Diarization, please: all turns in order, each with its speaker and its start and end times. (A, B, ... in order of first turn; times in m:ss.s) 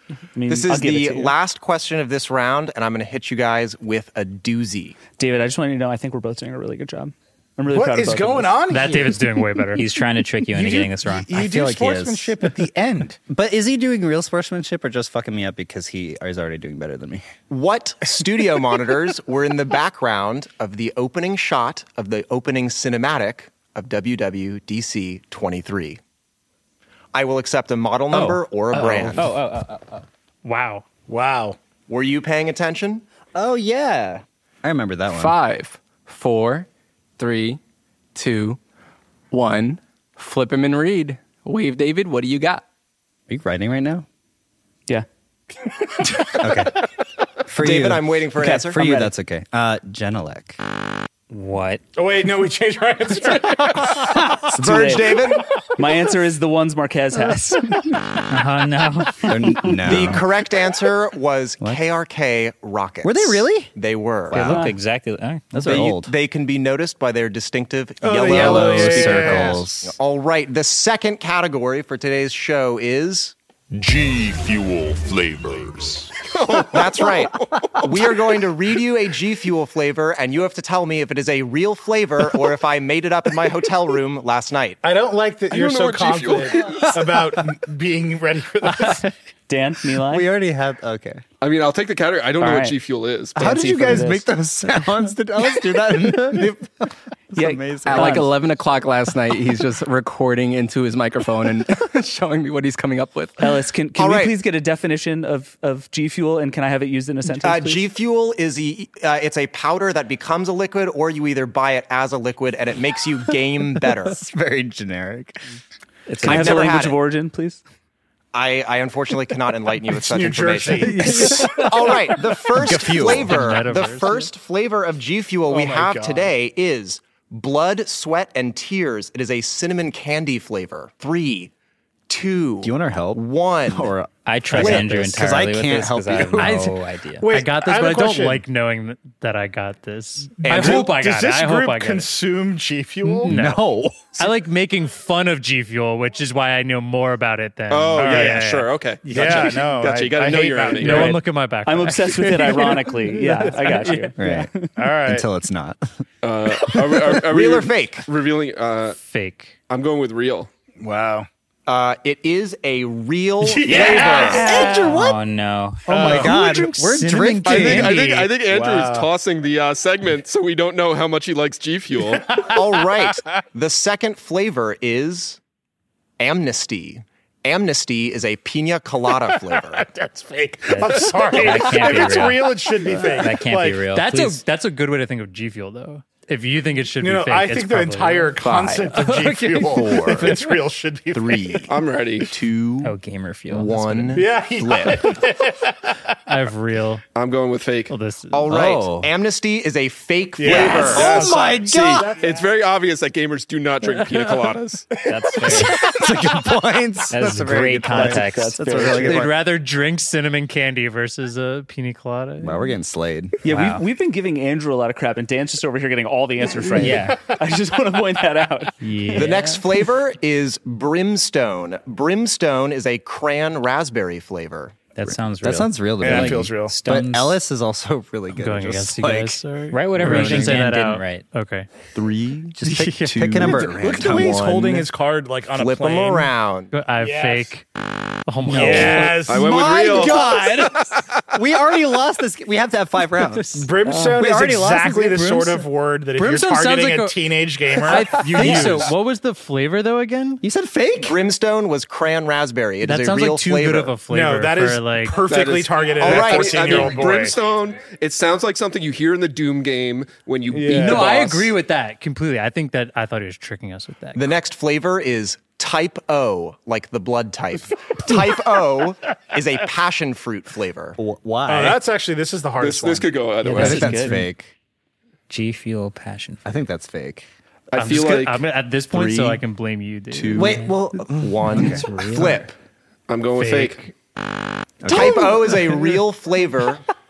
0:00.3-0:01.3 A
0:00.5-0:05.0 B
0:05.2-0:08.6 A
0:07.7-0:09.4 C
0:08.7-0:09.9 D
0:09.7-0:11.3 E
0:10.5-0:13.2 C
0:11.3-0:12.5 F
0:13.3-0:17.2 F
0:17.5-0:26.0 B
0:27.1-0:29.3 B
0:28.1-0:30.0 E
0:30.4-0:30.8 D
0:31.1-0:31.6 C
0:31.9-0:33.0 B
0:33.3-0:35.4 F
0:35.1-0:36.7 G
0:37.2-0:37.6 G
0:38.1-0:38.6 G
0:39.3-0:42.6 G
0:43.3-0:44.0 F
0:46.3-0:46.9 F
0:47.4-0:50.6 F
0:47.6-0:48.8 B
0:48.4-0:49.1 A
0:51.3-0:51.8 E
0:51.9-0:54.4 C
0:54.5-0:55.2 A
0:54.5-0:55.5 B
0:55.8-0:57.7 A
0:58.1-0:59.7 E
0:59.2-1:00.2 F
0:59.8-1:04.6 B
1:03.0-1:03.7 F
1:04.3-1:04.7 F
1:04.3-1:04.7 A
1:04.4-1:05.9 E
1:05.5-1:06.1 F
1:05.6-1:13.3 B
1:08.0-1:09.6 C
1:08.2-1:10.0 F
1:13.7-1:16.1 H
1:16.2-1:17.8 I
1:16.6-1:24.8 B
1:24.8-1:29.1 C
1:25.5-1:27.0 I
1:28.6-1:30.3 A
1:29.9-1:31.2 F
1:31.4-1:33.5 I
1:32.4-1:32.8 A
1:33.4-1:34.3 A
1:33.4-1:38.3 F
1:37.3-1:38.3 A
1:37.9-1:43.5 G
1:43.4-1:47.9 A
1:44.0-1:44.4 B
1:47.4-1:54.2 B
1:53.8-1:55.4 F
1:56.1-1:56.6 E
1:56.1-1:57.6 A
1:56.2-1:57.0 B
1:58.3-2:11.5 B
1:59.9-2:01.6 C
2:01.0-2:03.5 F
2:03.0-2:04.2 D
2:05.5-2:06.3 C
2:12.1-2:13.9 B
2:12.6-2:16.7 F
2:14.2-2:17.2 E
2:14.5-2:15.2 B
2:16.3-2:22.1 D
2:17.2-2:18.4 C
2:20.4-2:23.3 C
2:20.4-2:20.9 B
2:23.2-2:29.4 D
2:23.3-2:24.3 F
2:27.7-2:31.2 I
2:28.0-2:31.2 C
2:30.8-2:34.1 D
2:31.6-2:34.7 A
2:34.2-2:34.5 F
2:34.8-2:35.2 C
2:35.0-2:36.0 F
2:36.2-2:39.0 I
2:36.6-2:37.2 C
2:37.2-2:38.1 B
2:39.0-2:39.6 D
2:39.7-2:40.5 I
2:40.8-2:41.3 C
2:41.6-2:44.6 B
2:43.4-2:45.1 C
2:44.4-2:45.1 F
2:44.6-2:46.1 E
2:45.9-2:46.8 C
2:45.9-2:48.0 F
2:45.9-2:48.3 D
2:47.4-2:52.4 I
2:47.5-2:49.1 C
2:52.1-2:53.4 C
2:52.4-2:55.4 B
2:56.2-2:59.8 B
2:59.2-3:03.9 C
3:00.7-3:04.4 E
3:03.9-3:10.1 D
3:07.0-3:11.7 C
3:08.4-3:08.8 G
3:09.8-3:10.3 B
3:10.0-3:10.3 F
3:11.1-3:11.7 B
3:11.7-3:12.3 I
3:12.3-3:13.0 B
3:12.8-3:14.2 E
3:13.5-3:15.2 B
3:14.1-3:16.0 C
3:16.3-3:17.0 D
3:17.1-3:17.9 I
3:17.9-3:18.5 D
3:18.3-3:21.3 B
3:18.5-3:19.1 F
3:20.4-3:22.5 C
3:20.4-3:22.2 F
3:20.6-3:24.9 I
3:24.9-3:26.4 C
3:25.0-3:26.0 E
3:25.5-3:29.4 F
3:27.1-3:28.7 E
3:27.9-3:29.2 A
3:28.8-3:32.7 D
3:32.4-3:33.4 F
3:33.4-3:39.3 A
3:33.4-3:33.8 E
3:36.8-3:37.2 E
3:38.8-3:39.5 D
3:39.1-3:44.8 B
3:44.9-3:47.4 E
3:45.1-3:49.4 F
3:46.0-3:46.8 C
3:48.3-3:51.7 D
3:49.7-3:51.2 E
3:50.0-3:50.6 F
3:52.0-3:52.4 B
3:52.0-3:54.8 F
3:52.6-3:53.5 D
3:53.1-3:54.4 B
3:53.3-3:56.3 C
3:55.5-3:56.7 B
3:56.7-3:57.7 D
3:57.0-3:57.5 C
3:58.2-3:59.2 D
3:58.4-3:59.2 E
3:58.5-4:00.3 C
3:59.2-4:01.1 I
3:59.3-4:05.5 F
4:03.5-4:08.9 C
4:06.2-4:10.4 D
4:10.4-4:11.2 F
4:11.0-4:14.0 B
4:12.8-4:15.3 D
4:14.0-4:17.4 C
4:15.2-4:21.5 I
4:16.0-4:17.0 B
4:20.5-4:21.2 C
4:20.7-4:24.3 D
4:24.1-4:31.0 B
4:31.0-4:31.8 F
4:31.4-4:33.2 C
4:32.6-4:34.0 I
4:33.4-4:34.2 A
4:33.5-4:34.5 F
4:33.6-4:34.2 E
4:35.3-4:36.4 E
4:36.4-4:37.2 F
4:37.7-4:38.4 I
4:37.7-4:40.7 D
4:38.9-4:39.4 B
4:40.1-4:42.5 B
4:40.3-4:41.8 F
4:41.5-4:42.4 E
4:43.1-4:43.8 I
4:44.8-4:45.8 F
4:44.8-4:46.8 B
4:44.9-4:45.2 C